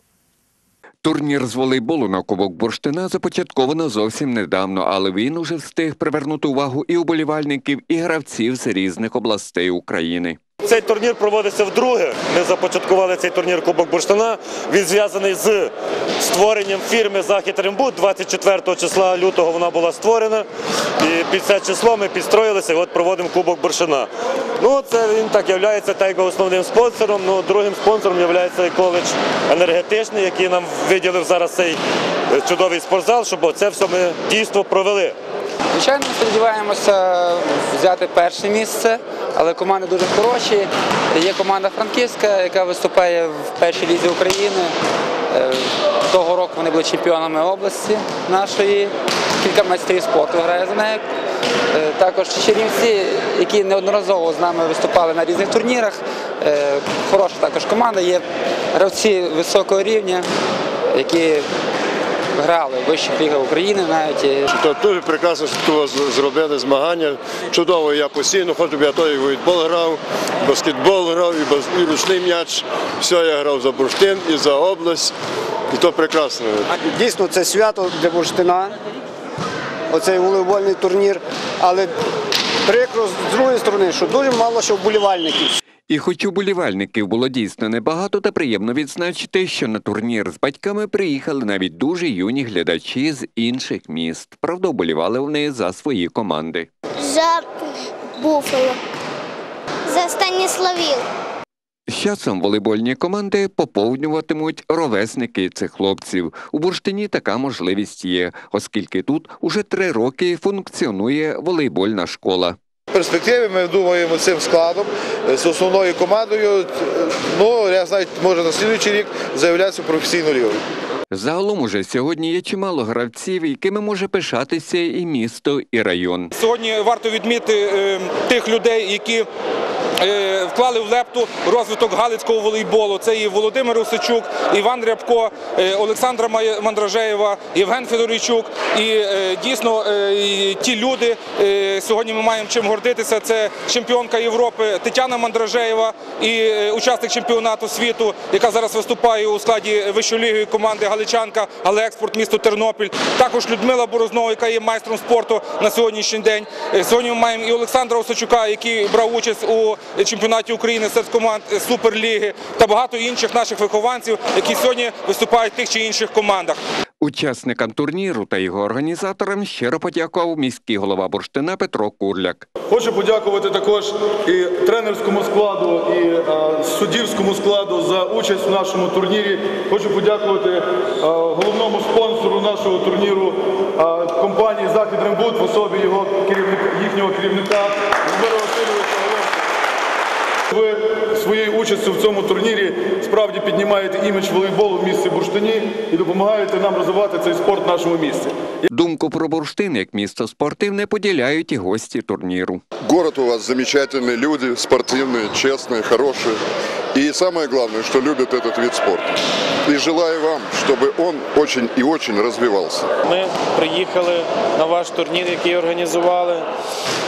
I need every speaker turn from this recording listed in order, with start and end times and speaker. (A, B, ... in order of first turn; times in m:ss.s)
0:01.0-0:10.4 A
0:10.6-0:20.5 B
0:21.0-0:35.2 B
0:35.7-0:44.8 C
0:45.3-0:51.0 C
0:51.7-1:00.2 C
1:00.9-1:01.5 C
1:02.4-1:04.5 C
1:04.5-1:15.1 D
1:15.7-1:16.7 D
1:16.8-1:18.8 E
1:19.9-1:21.9 E
1:22.6-1:25.6 E
1:25.9-1:36.7 A
1:37.0-1:38.8 F
1:39.9-1:41.0 F
1:41.9-1:52.6 A
1:52.9-2:00.6 G
2:01.1-2:06.3 A
2:06.3-2:09.2 H
2:10.0-2:46.6 H
2:47.0-2:52.5 A
2:52.7-3:09.4 I
3:10.5-3:18.3 I
3:18.7-3:22.6 A
3:22.9-3:26.4 J
3:26.9-3:29.1 J
3:29.6-3:32.9 J
3:33.1-3:36.5 K